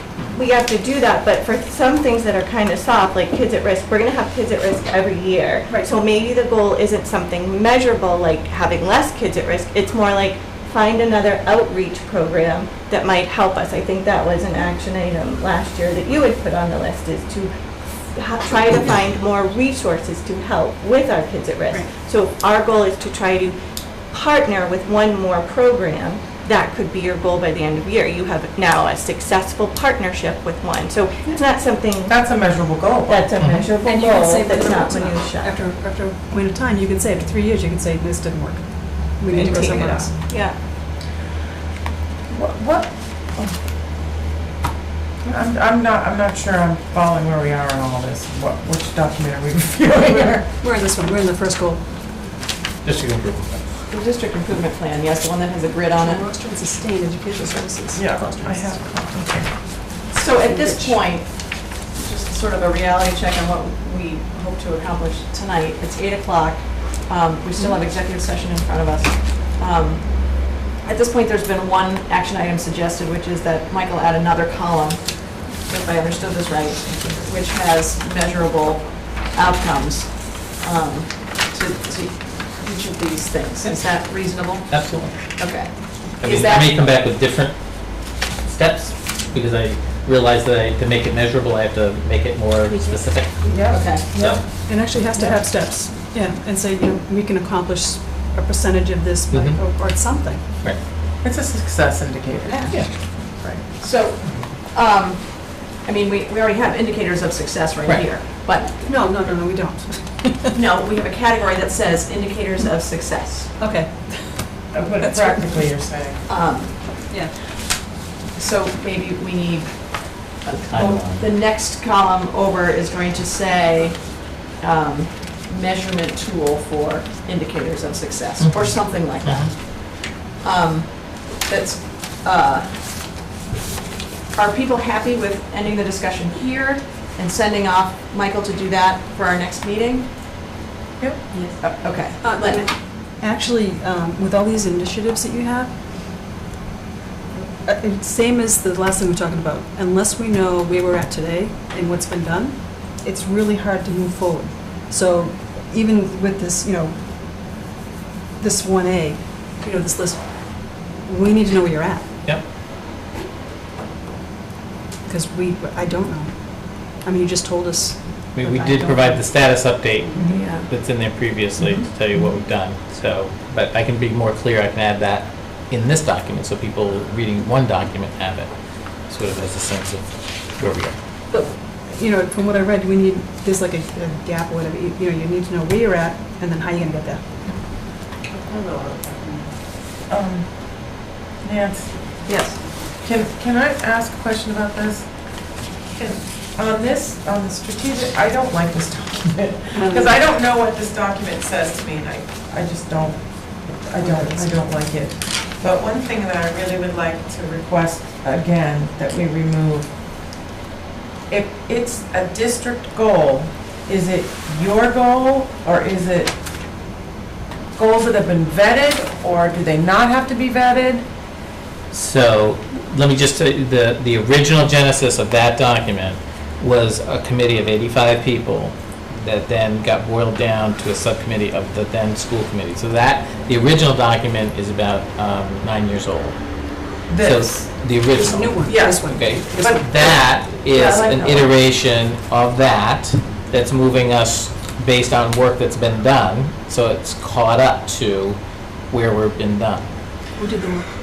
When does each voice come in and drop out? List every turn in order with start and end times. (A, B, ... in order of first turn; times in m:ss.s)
0:00.3-0:17.5 A
0:18.1-0:23.6 A
0:24.1-0:32.2 A
0:32.1-0:33.2 B
0:33.0-0:35.5 A
0:33.4-0:33.7 C
0:33.8-0:40.1 D
0:39.3-0:40.6 A
0:42.3-0:43.6 B
0:45.2-0:50.5 B
0:50.6-0:51.8 D
0:52.8-0:53.7 C
0:53.9-0:56.3 E
0:56.0-0:58.8 D
0:57.9-0:59.5 B
1:00.1-1:26.8 E
1:00.4-1:00.9 D
1:24.7-1:25.6 C
1:26.2-1:34.4 C
1:33.4-1:40.5 D
1:33.5-1:33.8 B
1:33.6-1:34.1 E
1:39.3-1:39.6 C
1:41.2-1:43.6 B
1:43.8-1:48.8 E
1:47.8-1:48.1 C
1:48.7-1:50.6 D
1:50.5-1:53.6 E
1:53.6-1:55.7 D
1:54.7-1:56.2 B
1:56.2-1:57.1 E
1:57.1-1:57.4 D
1:58.3-2:12.7 E
2:00.6-2:01.3 C
2:08.4-2:09.5 C
2:14.3-2:20.1 E
2:21.0-2:21.3 B
2:21.6-2:22.6 E
2:22.2-2:25.7 D
2:27.6-2:37.0 D
2:38.4-2:42.1 D
2:45.0-2:48.0 D
2:48.3-2:58.5 C
2:48.4-2:49.2 E
2:50.1-2:50.7 E
2:59.0-3:01.0 C
3:01.3-3:07.2 D
3:08.2-3:09.5 B
3:10.1-3:12.3 B
3:12.2-3:12.6 E
3:13.0-3:15.1 B
3:15.9-3:29.9 B
3:19.7-3:20.1 D
3:24.0-3:24.6 D
3:31.3-3:36.4 B
3:37.7-3:41.1 B
3:41.9-3:56.4 C
3:57.1-3:57.6 B
3:57.2-4:08.4 C
3:58.1-3:59.9 D
3:58.6-4:00.2 B
4:00.7-4:01.5 E
4:08.9-4:09.9 C
4:10.4-4:10.9 D